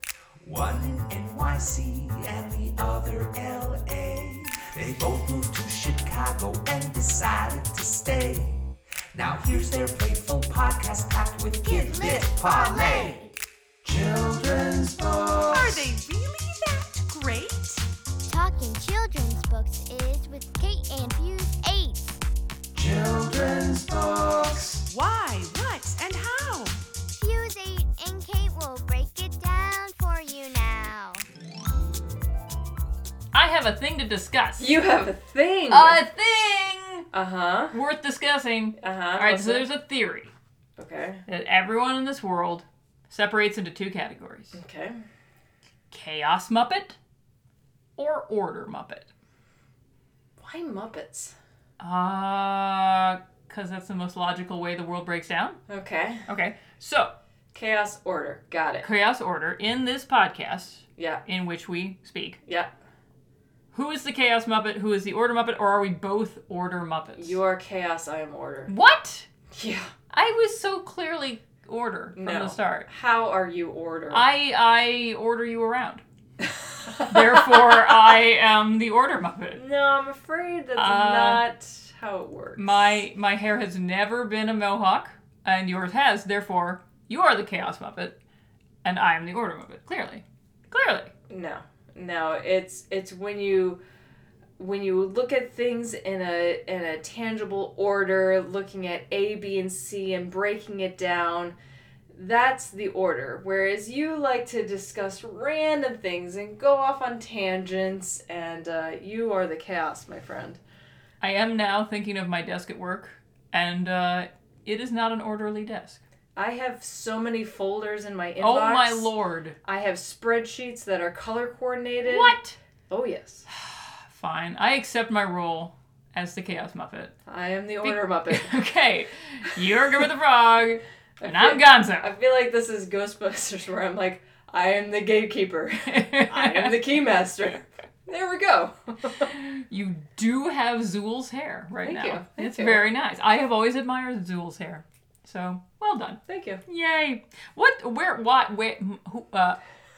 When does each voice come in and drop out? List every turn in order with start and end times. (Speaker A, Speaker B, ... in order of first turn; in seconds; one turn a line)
Speaker A: 0.4-13.3
Speaker B: 11.7-13.3
Speaker A: 13.8-16.0
Speaker C: 15.5-17.7
Speaker B: 18.2-22.2
Speaker A: 22.7-24.9
Speaker C: 24.9-26.8
Speaker B: 27.1-31.2
Speaker D: 33.3-34.7
Speaker E: 34.6-36.0
Speaker D: 35.7-37.1
Speaker E: 37.1-37.7
Speaker D: 37.7-40.3
Speaker E: 38.8-39.7
Speaker E: 40.8-41.2
Speaker D: 41.3-44.6
Speaker E: 44.5-45.0
Speaker D: 45.9-47.0
Speaker D: 48.0-49.1
Speaker E: 50.4-51.3
Speaker D: 51.8-55.6
Speaker E: 55.7-56.2
Speaker D: 56.3-57.1
Speaker E: 57.5-58.9
Speaker D: 58.8-62.4
Speaker E: 61.0-61.2
Speaker D: 63.7-67.4
Speaker E: 67.2-68.7
Speaker D: 68.7-69.3
Speaker E: 69.5-69.9
Speaker D: 70.1-72.9
Speaker E: 72.1-74.2
Speaker D: 74.1-76.0
Speaker E: 76.9-77.8
Speaker D: 77.1-79.6
Speaker E: 79.5-83.0
Speaker D: 80.8-81.4
Speaker D: 82.6-88.2
Speaker D: 88.8-91.1
Speaker E: 91.3-93.8
Speaker E: 94.6-101.5
Speaker E: 102.1-110.6
Speaker D: 111.2-116.0
Speaker E: 116.3-119.1
Speaker D: 118.4-119.6
Speaker E: 119.6-122.3
Speaker D: 122.0-122.5
Speaker E: 122.9-123.4
Speaker D: 123.5-127.1
Speaker E: 127.3-128.6
Speaker D: 127.8-132.1
Speaker E: 131.2-139.3
Speaker D: 135.8-136.8
Speaker D: 139.3-149.6
Speaker E: 141.8-142.8
Speaker E: 146.3-146.6